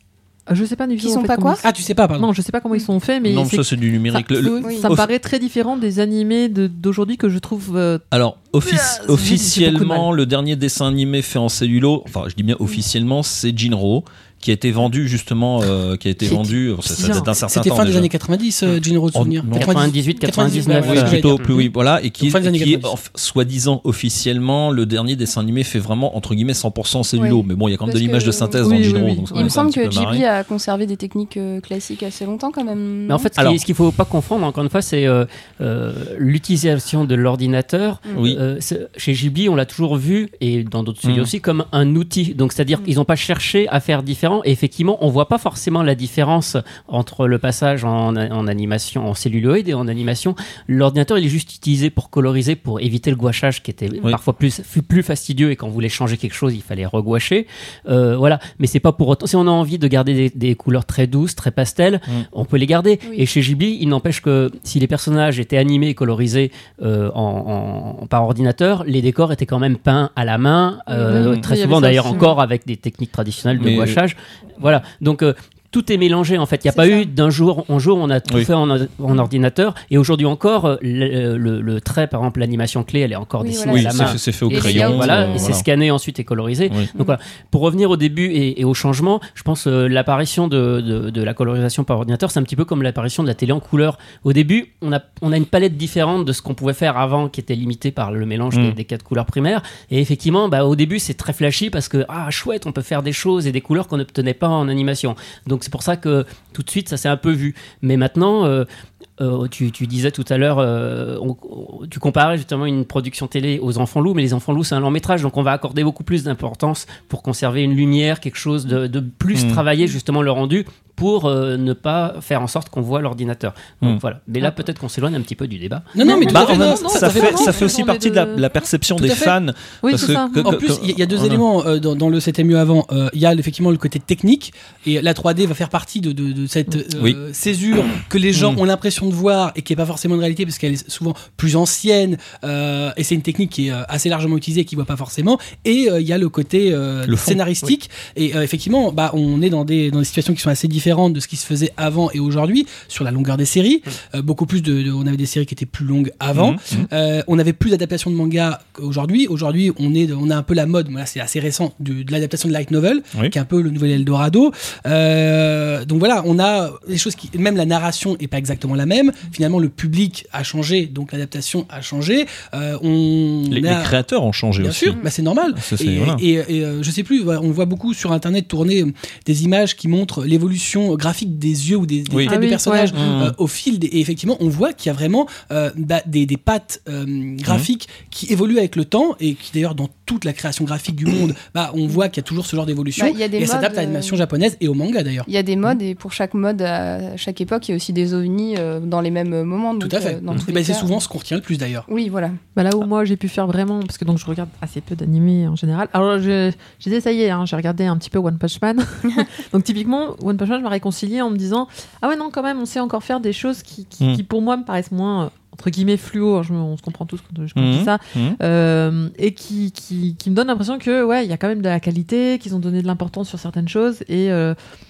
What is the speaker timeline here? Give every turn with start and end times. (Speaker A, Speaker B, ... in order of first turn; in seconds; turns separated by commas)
Speaker A: 0.5-8.0, Speaker B: 1.0-1.6, Speaker C: 1.6-2.3, Speaker D: 3.2-5.1, Speaker B: 4.6-4.9, Speaker D: 8.1-18.1, Speaker A: 8.6-10.1, Speaker A: 16.2-17.3, Speaker C: 17.4-21.6, Speaker D: 19.1-19.8, Speaker E: 19.5-21.6, Speaker B: 20.2-20.6, Speaker D: 20.7-30.2, Speaker C: 22.2-22.9, Speaker B: 27.1-33.3, Speaker A: 28.6-29.6, Speaker E: 33.1-108.7, Speaker D: 33.4-33.6, Speaker D: 38.1-38.4, Speaker D: 41.0-41.3, Speaker A: 70.9-72.3, Speaker D: 71.1-71.5, Speaker D: 73.6-74.0, Speaker B: 76.7-77.1, Speaker B: 83.4-85.6, Speaker D: 83.7-85.6, Speaker D: 98.5-98.8, Speaker E: 109.2-126.0, Speaker D: 119.3-119.6, Speaker C: 125.9-127.7, Speaker A: 126.0-128.4, Speaker D: 126.3-131.4, Speaker C: 128.9-129.3, Speaker A: 129.8-130.6, Speaker C: 129.9-174.0, Speaker D: 137.9-138.6, Speaker D: 147.1-147.7, Speaker D: 156.3-156.9, Speaker D: 173.5-175.0, Speaker C: 174.6-195.3, Speaker D: 175.5-176.2, Speaker D: 182.1-182.3, Speaker A: 182.2-182.9, Speaker D: 182.9-183.3, Speaker B: 192.9-194.2, Speaker B: 195.3-201.0, Speaker C: 199.8-201.8, Speaker B: 201.9-202.4, Speaker A: 202.6-224.6, Speaker D: 217.5-218.4